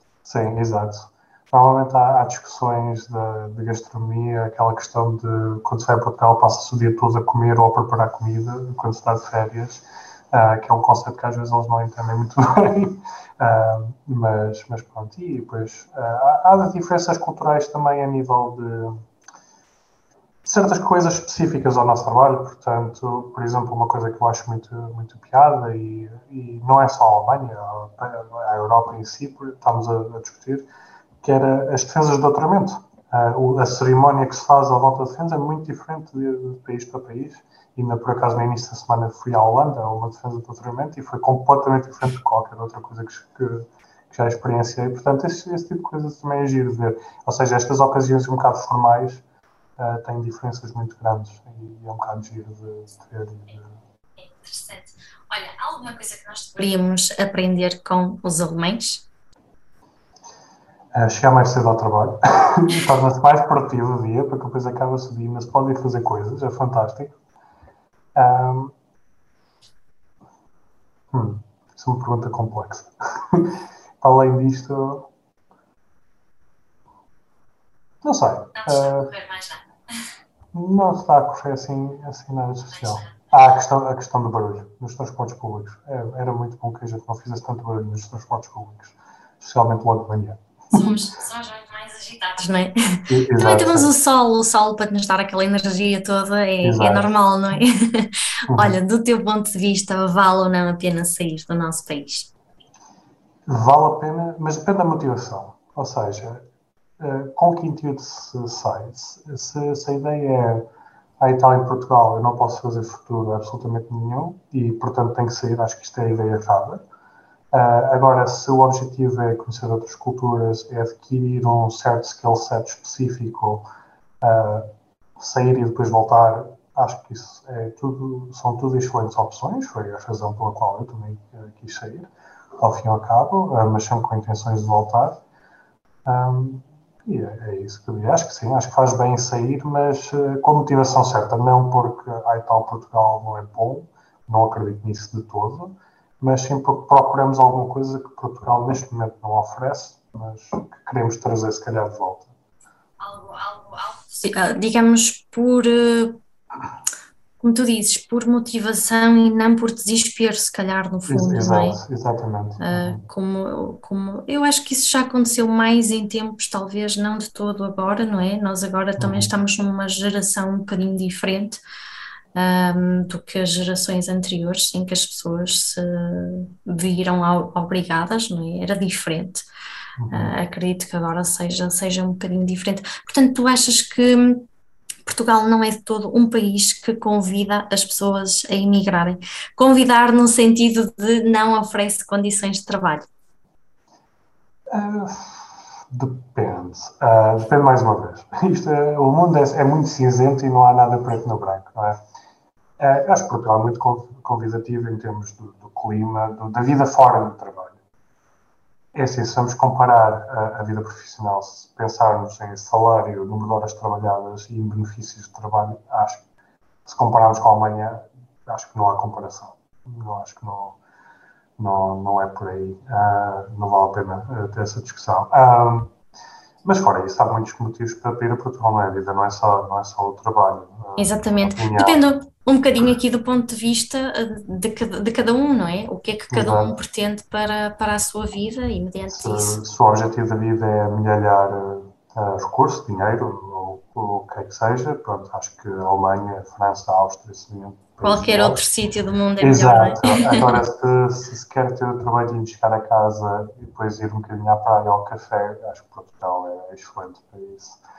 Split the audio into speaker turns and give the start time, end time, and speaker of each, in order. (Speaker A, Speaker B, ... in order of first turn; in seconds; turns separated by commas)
Speaker A: 0.2-19.0, Speaker A: 20.4-30.7, Speaker A: 31.2-49.2, Speaker A: 49.8-53.8, Speaker B: 54.2-59.1, Speaker A: 60.9-67.2, Speaker A: 68.2-68.8, Speaker A: 71.1-75.1, Speaker A: 78.0-79.1, Speaker B: 78.6-79.6, Speaker A: 80.5-90.9, Speaker B: 82.7-83.2, Speaker B: 90.7-102.3, Speaker A: 93.1-93.9, Speaker A: 96.6-97.1, Speaker A: 98.5-98.8, Speaker A: 103.5-106.5, Speaker A: 107.0-110.7, Speaker A: 111.2-116.8, Speaker A: 117.5-123.7, Speaker A: 124.2-135.2, Speaker A: 136.1-152.3, Speaker B: 153.0-156.2, Speaker B: 157.4-161.8, Speaker A: 161.1-163.0, Speaker B: 162.6-171.6, Speaker A: 169.0-169.3, Speaker B: 172.3-179.5, Speaker A: 180.0-180.3, Speaker B: 180.1-184.5, Speaker B: 185.1-193.1, Speaker A: 194.7-202.0, Speaker A: 202.8-207.8, Speaker A: 208.9-216.2, Speaker A: 216.8-220.8, Speaker A: 221.6-225.9, Speaker A: 226.6-232.0, Speaker B: 231.0-239.6, Speaker A: 236.3-236.8, Speaker A: 239.1-248.6, Speaker B: 248.0-250.6, Speaker A: 249.4-257.8